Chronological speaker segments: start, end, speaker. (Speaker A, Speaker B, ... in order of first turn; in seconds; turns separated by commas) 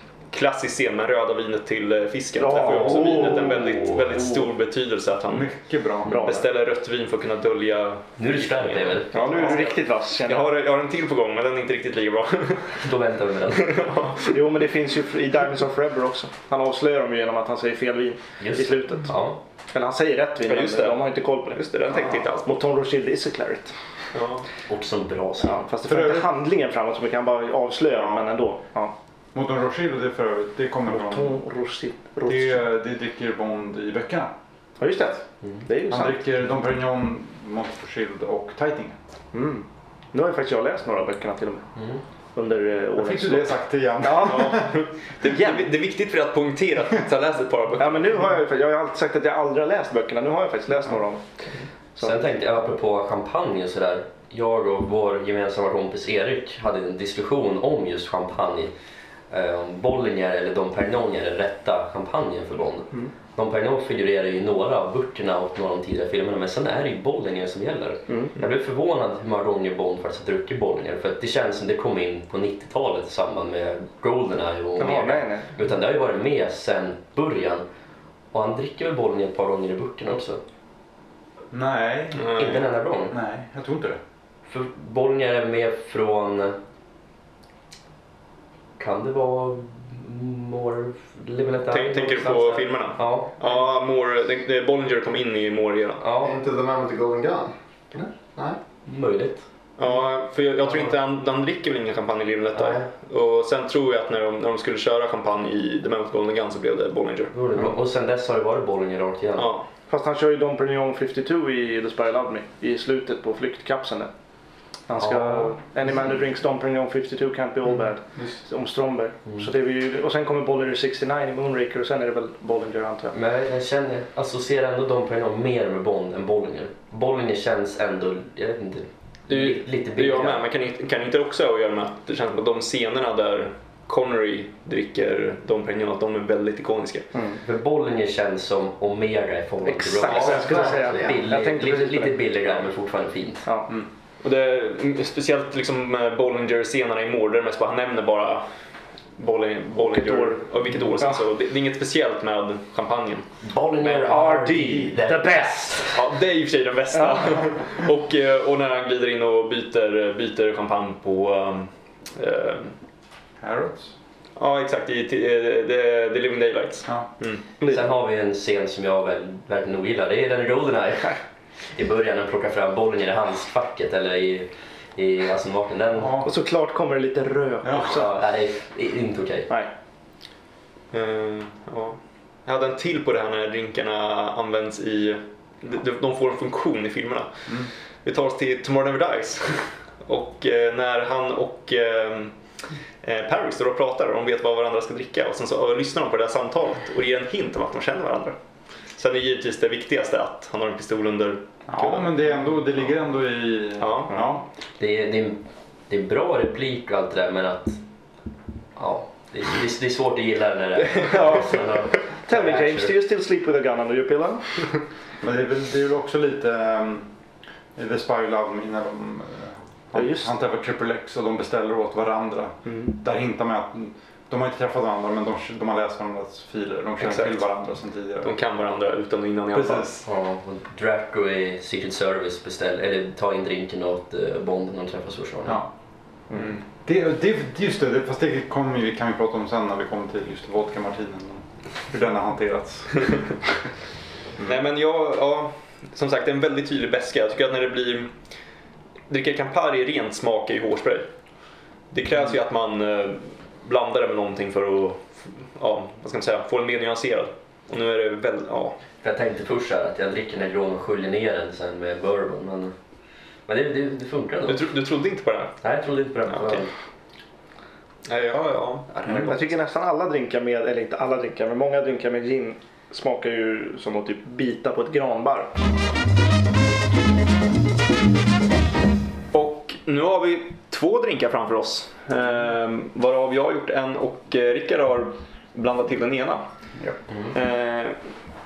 Speaker A: 0.3-5.5, Speaker B: 2.4-4.4, Speaker C: 3.0-3.9, Speaker D: 5.3-6.2, Speaker A: 6.0-12.8, Speaker C: 6.1-6.4, Speaker B: 6.1-6.4, Speaker C: 8.2-9.1, Speaker B: 9.1-10.5, Speaker C: 12.8-13.8, Speaker A: 13.5-14.4, Speaker B: 14.3-19.2, Speaker C: 18.4-19.4, Speaker B: 19.7-21.7, Speaker A: 20.5-22.5, Speaker B: 22.4-23.7, Speaker A: 24.1-24.4, Speaker C: 24.7-25.6, Speaker B: 25.4-28.9, Speaker D: 25.9-26.3, Speaker D: 29.3-31.3, Speaker B: 30.9-32.7, Speaker D: 32.3-34.3, Speaker B: 34.8-36.2, Speaker D: 35.9-39.0, Speaker B: 39.3-41.6, Speaker C: 41.8-42.0, Speaker B: 42.4-44.6, Speaker D: 43.0-44.8, Speaker A: 44.2-48.3, Speaker B: 47.8-51.2, Speaker B: 52.0-52.2, Speaker C: 52.0-58.7, Speaker C: 59.3-77.7, Speaker B: 68.1-68.3, Speaker B: 74.8-75.5, Speaker C: 78.3-80.4, Speaker D: 81.5-82.6, Speaker A: 82.2-82.6, Speaker C: 82.3-83.2, Speaker D: 83.1-84.0, Speaker C: 84.5-86.6, Speaker C: 88.8-93.4, Speaker A: 91.7-96.0, Speaker C: 96.0-96.3, Speaker E: 96.2-98.6, Speaker C: 98.9-99.4, Speaker A: 99.8-107.3, Speaker C: 100.7-100.9, Speaker C: 102.5-102.9, Speaker C: 107.3-109.5, Speaker A: 109.4-109.7, Speaker B: 109.9-114.1, Speaker B: 114.9-123.2, Speaker C: 115.0-115.5, Speaker C: 123.1-130.4, Speaker A: 129.3-137.1, Speaker B: 137.1-137.4, Speaker C: 137.4-143.5, Speaker B: 139.7-142.2, Speaker E: 140.4-141.2, Speaker A: 144.2-148.4, Speaker A: 149.2-153.3, Speaker B: 149.7-151.2, Speaker C: 153.4-155.9, Speaker A: 153.8-154.3, Speaker B: 154.0-156.0, Speaker A: 155.9-162.7, Speaker D: 163.4-163.9, Speaker A: 164.4-167.4, Speaker C: 167.6-171.2, Speaker C: 171.8-176.2, Speaker D: 176.0-176.3, Speaker B: 176.2-178.1, Speaker C: 177.7-179.5, Speaker A: 180.9-187.3, Speaker A: 188.1-192.3, Speaker A: 193.0-198.4, Speaker A: 199.0-202.2, Speaker D: 201.7-204.4, Speaker A: 203.8-204.2, Speaker C: 204.8-207.8, Speaker C: 208.8-213.0, Speaker B: 211.1-211.6, Speaker B: 212.3-214.6, Speaker D: 215.2-217.1, Speaker D: 217.8-228.3, Speaker B: 219.9-220.3, Speaker B: 222.7-222.9, Speaker A: 227.0-227.5, Speaker A: 228.2-229.9, Speaker D: 229.5-230.1, Speaker C: 230.0-235.6, Speaker D: 235.5-235.7, Speaker D: 236.4-243.5, Speaker A: 244.4-248.1, Speaker A: 249.1-251.1, Speaker A: 251.9-258.8, Speaker C: 259.0-262.7, Speaker C: 263.5-264.7, Speaker A: 264.5-265.6, Speaker C: 265.6-266.7, Speaker A: 266.2-266.7, Speaker A: 268.1-269.5, Speaker B: 269.2-275.6, Speaker A: 279.3-286.4, Speaker A: 287.3-288.0